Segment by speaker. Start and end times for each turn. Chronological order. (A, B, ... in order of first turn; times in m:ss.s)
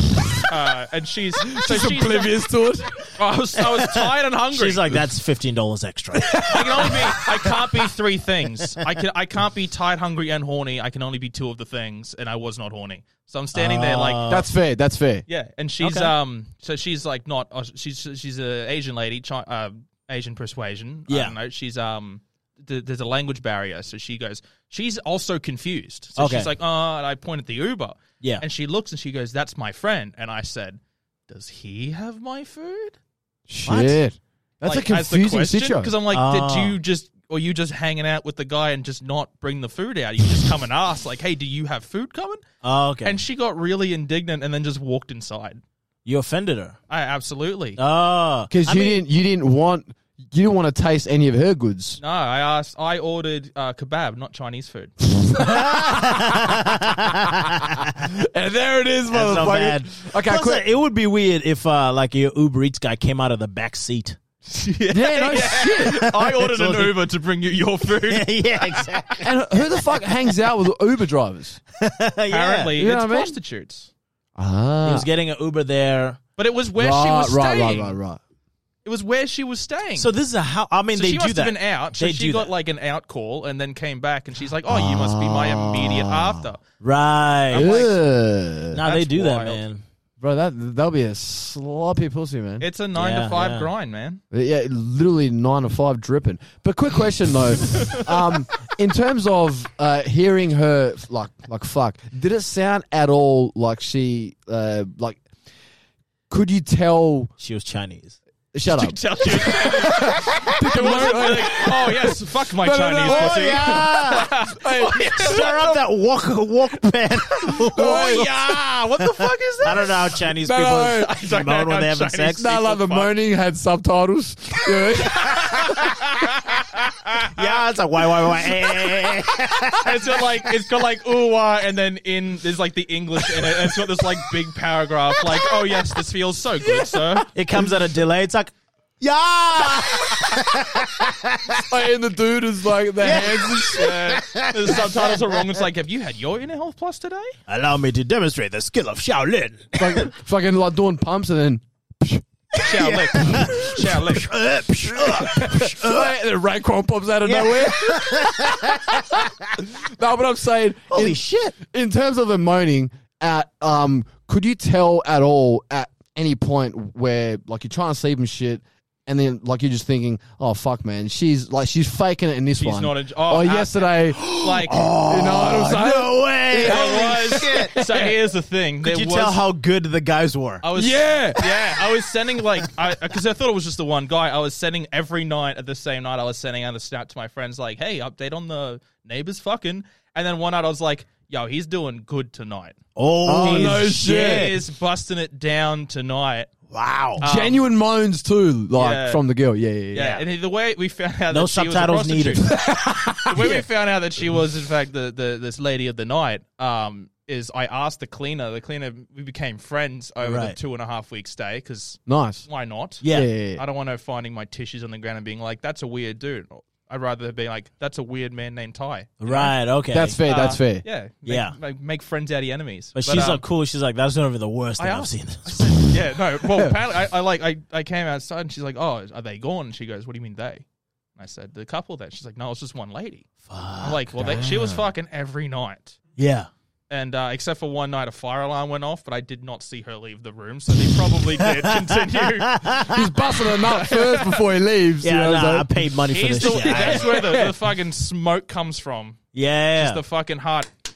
0:00.2-0:00.4 A
0:00.4-0:02.5 B
0:01.4-0:03.1 A
0:03.2-0:05.0 B
0:03.6-0:06.8 C
0:06.1-0:07.8 A
0:06.5-0:14.4 B
0:13.5-0:14.5 C
0:14.3-0:15.2 A
0:15.3-0:33.0 B
0:15.8-0:16.1 C
0:21.1-0:21.4 C
0:26.2-0:26.5 C
0:33.5-0:35.9 A
0:33.7-0:34.0 C
0:34.6-0:42.4 B
0:36.1-0:36.8 C
0:42.6-0:43.2 C
0:43.0-0:45.6 B
0:46.0-0:46.8 C
0:46.9-0:47.8 B
0:47.8-0:48.5 C
0:48.5-0:52.0 A
0:48.6-0:49.0 B
0:52.0-0:55.0 B
0:55.2-1:00.7 A
0:55.4-0:57.9 C
0:59.1-1:04.2 C
1:04.5-1:09.0 B
1:04.9-1:06.0 A
1:05.8-1:07.0 C
1:08.0-1:09.6 C
1:09.2-1:11.6 A
1:11.8-1:12.7 C
1:12.3-1:13.9 B
1:12.8-1:13.4 A
1:14.4-1:15.1 A
1:14.8-1:16.2 C
1:16.4-1:18.0 B
1:16.8-1:18.2 A
1:18.8-1:20.1 B
1:20.0-1:22.5 C
1:20.9-1:26.6 B
1:24.7-1:26.4 A
1:26.8-1:27.8 C
1:27.5-1:28.0 B
1:27.5-1:28.8 A
1:28.7-1:29.8 C
1:28.8-1:29.6 B
1:30.2-1:32.6 A
1:32.6-1:34.2 B
1:33.0-1:33.7 C
1:34.3-1:45.2 A
1:37.7-1:38.0 B
1:46.3-1:47.3 A
1:47.4-1:48.2 C
1:48.5-1:55.4 A
1:48.7-1:55.8 B
1:53.0-1:54.3 C
1:55.0-1:58.3 C
1:57.5-2:00.2 B
1:57.7-1:59.3 A
1:59.6-2:02.5 C
2:00.4-2:01.1 A
2:00.8-2:03.1 B
2:02.4-2:05.8 A
2:04.9-2:07.3 B
2:07.3-2:10.2 C
2:09.7-2:17.3 B
2:16.7-2:17.2 A
2:17.3-2:21.6 C
2:21.6-2:24.0 A
2:23.0-2:25.6 C
2:23.1-2:27.3 B
2:27.5-2:30.1 C
2:29.8-2:33.9 A
2:32.6-2:36.2 C
2:32.6-2:34.3 B
2:34.9-2:54.3 A
2:37.2-2:39.6 C
2:40.9-2:41.6 C
2:52.6-2:54.9 B
2:54.1-2:57.8 C
2:55.0-2:58.1 A
2:56.6-2:59.4 B
2:58.8-3:00.6 C
3:00.6-3:12.8 B
3:00.8-3:01.9 A
3:13.0-3:14.6 C
3:13.3-3:14.6 A
3:13.3-3:16.5 B
3:16.7-3:17.2 C
3:17.2-3:17.6 B
3:17.2-3:20.2 A
3:18.8-3:19.2 B
3:19.9-3:22.6 B
3:21.3-3:22.5 C
3:22.5-3:23.6 A
3:23.2-3:39.6 B
3:30.2-3:30.6 C
3:32.1-3:32.4 A
3:33.0-3:33.3 C
3:33.1-3:33.6 A
3:39.2-3:40.2 C
3:39.9-3:40.8 A
3:40.2-3:43.4 B
3:41.2-3:41.6 C
3:43.0-3:46.0 C
3:44.8-3:50.6 B
3:51.2-3:53.3 B
3:53.5-3:54.0 C
3:53.8-3:56.0 B
3:54.2-3:54.8 A
3:56.2-3:56.5 C
3:56.9-4:02.8 B
4:01.4-4:03.0 C
4:02.9-4:05.7 A
4:03.5-4:04.4 B
4:05.0-4:07.1 C
4:06.1-4:09.2 B
4:06.4-4:07.6 A
4:09.3-4:10.0 C
4:09.8-4:10.7 B